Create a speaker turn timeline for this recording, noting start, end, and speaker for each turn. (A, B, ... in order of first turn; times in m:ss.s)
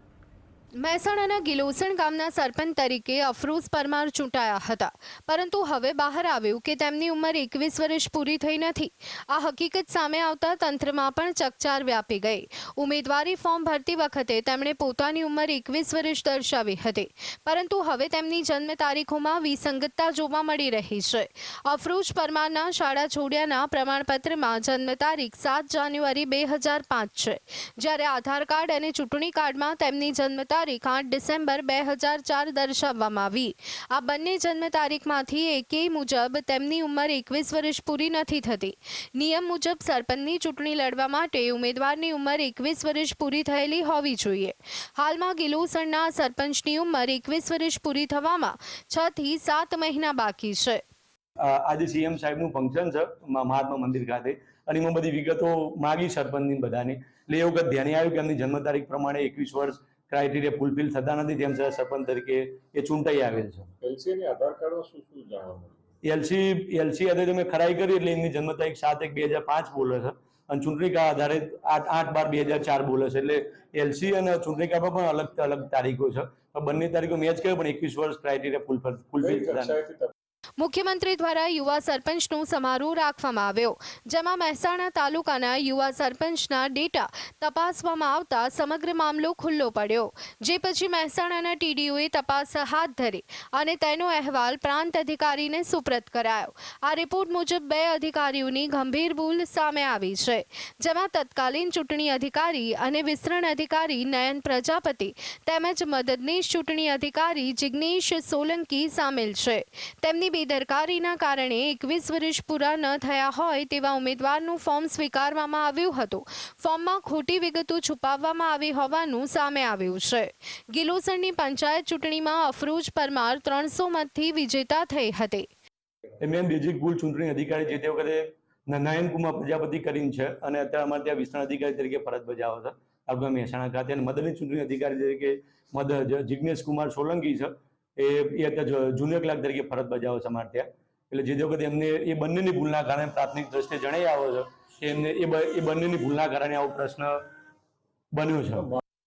0:00.8-0:50.8 A
0:51.4-1:03.7 B
1:03.8-1:05.8 C
1:06.0-1:19.8 B
1:19.2-1:20.1 C
1:20.6-2:05.5 A
2:06.2-2:27.2 B
2:28.1-2:28.8 B